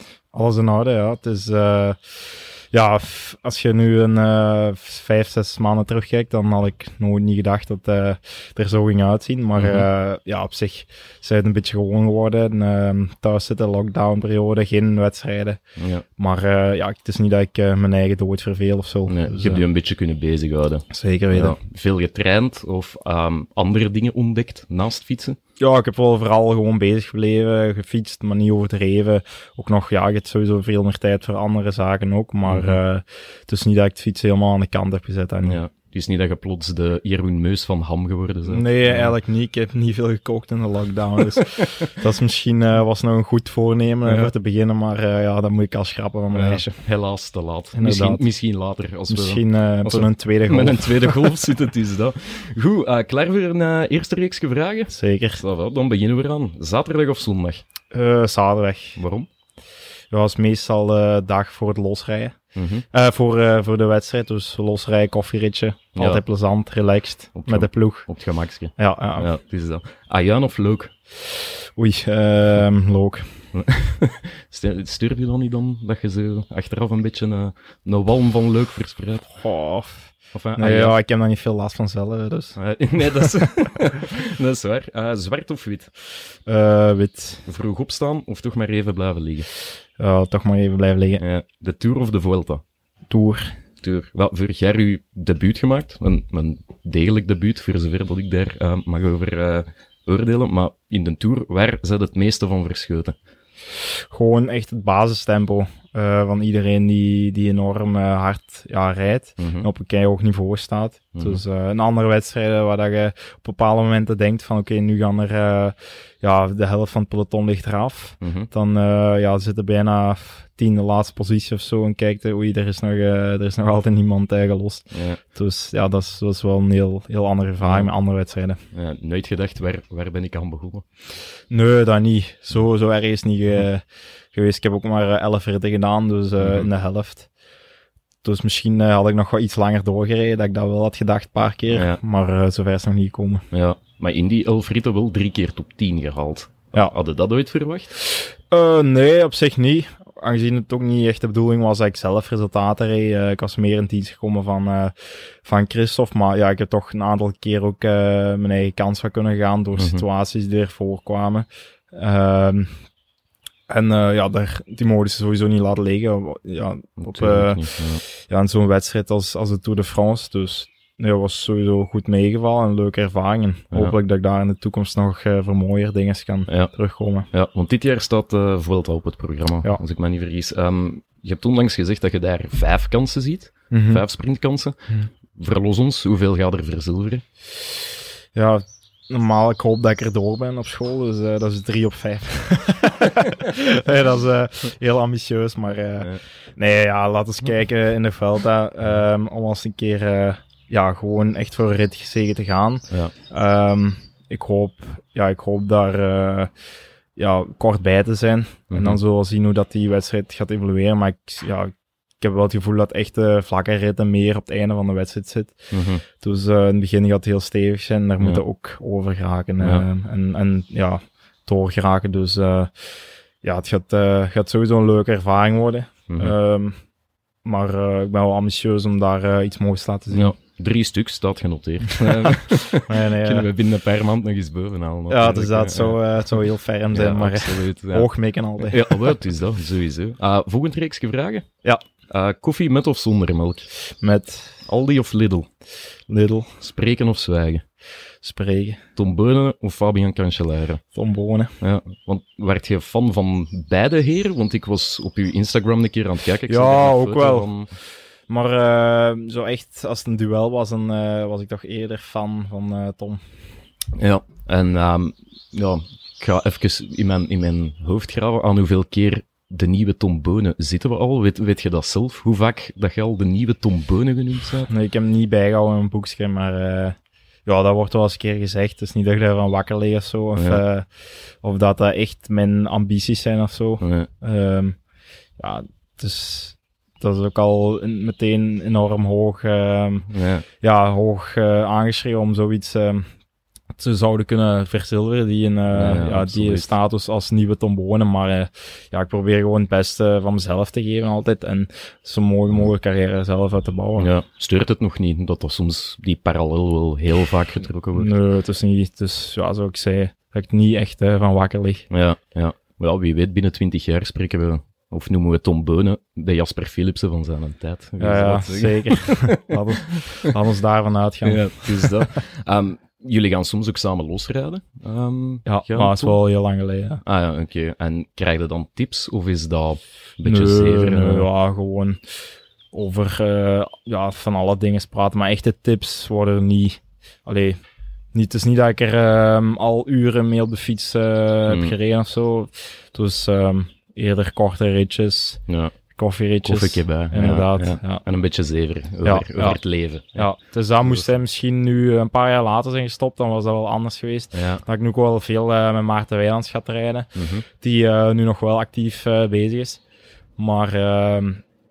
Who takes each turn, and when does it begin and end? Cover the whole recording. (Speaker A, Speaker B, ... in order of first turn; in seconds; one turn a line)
Speaker A: 0.3-15.6
Speaker B: 9.6-9.9
Speaker B: 15.8-16.0
Speaker A: 16.2-19.6
Speaker B: 19.1-25.4
Speaker A: 20.9-21.6
Speaker A: 25.6-35.6
Speaker B: 32.5-32.8
Speaker B: 35.4-39.1
Speaker A: 38.5-46.8
Speaker B: 41.2-41.9
Speaker B: 44.0-44.3
Speaker B: 46.3-57.6
Speaker A: 47.7-48.2
Speaker A: 49.1-51.3
Speaker A: 54.9-55.4
Speaker A: 57.9-59.0
Speaker B: 59.0-59.3
Speaker A: 60.1-62.4
Speaker B: 62.5-62.8
Speaker A: 62.9-68.1
Speaker B: 66.0-66.2
Speaker B: 67.3-70.9
Speaker A: 68.8-69.3
Speaker A: 71.8-73.3
Speaker B: 73.5-79.3
Speaker A: 79.3-82.6
Speaker B: 80.3-81.0
Speaker B: 82.5-85.9
Speaker A: 86.5-87.4
Speaker B: 87.5-89.5
Speaker A: 90.0-91.2
Speaker B: 91.2-92.6
Speaker A: 93.1-93.5
Speaker B: 93.8-103.2
Speaker A: 104.1-128.6
Speaker B: 109.4-109.7
Speaker B: 111.1-111.4
Speaker B: 118.2-118.5
Speaker B: 124.9-125.2
Speaker B: 127.6-127.9
Speaker B: 128.7-130.8
Speaker A: 131.5-137.3
Speaker B: 136.4-136.7
Speaker A: 138.2-143.4
Speaker B: 141.7-142.0
Speaker B: 143.5-147.9
Speaker A: 148.0-162.8
Speaker B: 159.8-160.0
Speaker A: 163.7-177.3
Speaker B: 167.0-168.0
Speaker B: 176.5-176.7
Speaker B: 177.3-187.2
Speaker A: 183.7-184.0
Speaker A: 188.3-206.5
Speaker A: 207.2-215.6
Speaker B: 208.7-209.0
Speaker B: 215.7-216.0
Speaker A: 216.2-222.7
Speaker B: 219.6-219.8
Speaker A: 223.4-226.8
Speaker B: 226.1-226.3
Speaker A: 227.4-230.3
Speaker B: 230.1-236.3
Speaker A: 232.7-233.5
Speaker A: 235.1-239.1
Speaker B: 236.9-238.1
Speaker B: 238.6-241.4
Speaker B: 242.1-243.7
Speaker A: 244.0-244.6
Speaker B: 244.7-245.5
Speaker A: 246.1-246.5
Speaker B: 246.6-247.6
Speaker A: 248.2-248.8
Speaker B: 249.0-250.8
Speaker A: 250.9-251.5
Speaker B: 251.6-257.7
Speaker A: 256.5-257.5
Speaker A: 258.3-263.2
Speaker B: 263.9-274.7
Speaker A: 274.7-280.9
Speaker B: 280.4-280.6
Speaker A: 281.4-284.8
Speaker B: 283.8-284.1
Speaker A: 285.4-290.1
Speaker B: 290.1-290.4
Speaker A: 290.6-293.1
Speaker A: 293.8-304.1
Speaker B: 295.7-296.7
Speaker B: 304.0-308.1
Speaker A: 307.9-311.9
Speaker B: 311.9-320.3
Speaker A: 318.0-322.0
Speaker B: 321.2-326.2
Speaker A: 325.4-327.0
Speaker B: 327.0-331.3
Speaker A: 330.2-332.0
Speaker A: 332.7-337.6
Speaker A: 338.1-348.0
Speaker B: 341.5-341.8
Speaker B: 345.5-345.7
Speaker B: 346.4-350.3
Speaker A: 349.0-349.6
Speaker A: 350.1-359.8
Speaker B: 350.8-351.1
Speaker B: 354.3-354.6
Speaker B: 357.1-357.4
Speaker A: 360.4-361.4